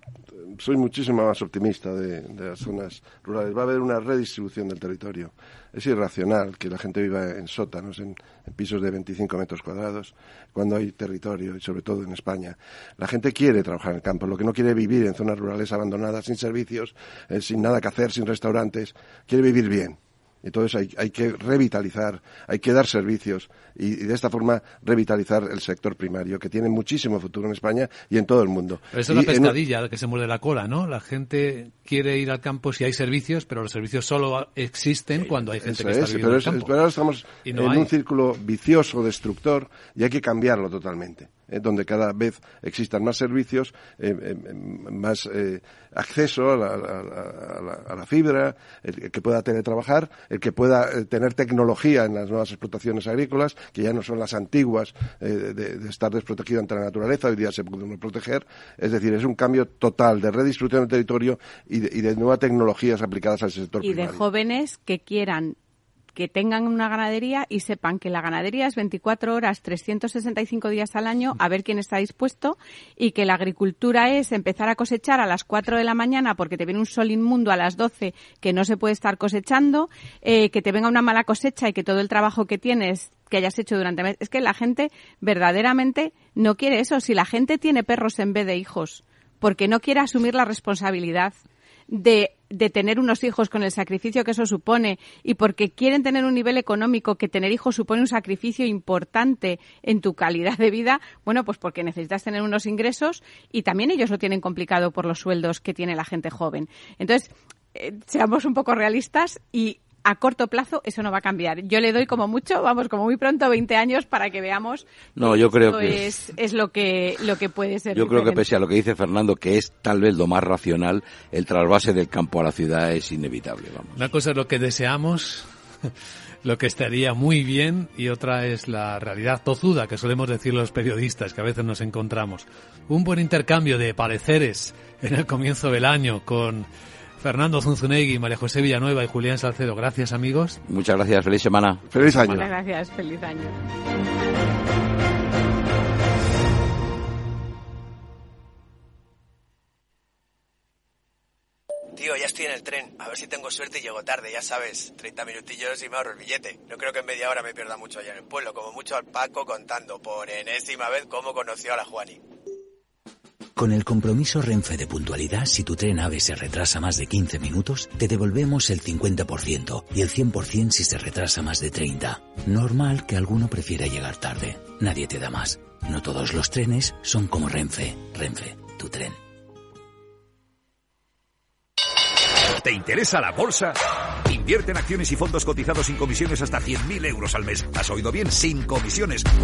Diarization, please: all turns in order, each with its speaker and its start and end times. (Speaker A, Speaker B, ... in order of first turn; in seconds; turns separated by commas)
Speaker A: 0.4-29.6, Speaker B: 28.9-36.7, Speaker A: 35.2-64.2, Speaker B: 37.4-37.9, Speaker C: 63.8-65.5, Speaker C: 66.1-91.3, Speaker C: 91.9-118.5, Speaker D: 115.2-116.1, Speaker D: 117.9-124.0, Speaker B: 124.0-125.5, Speaker B: 126.4-136.7, Speaker B: 137.2-140.6, Speaker D: 140.7-141.8, Speaker A: 141.9-142.5, Speaker C: 142.0-143.5, Speaker E: 151.9-162.2, Speaker F: 163.6-179.2, Speaker G: 182.5-189.3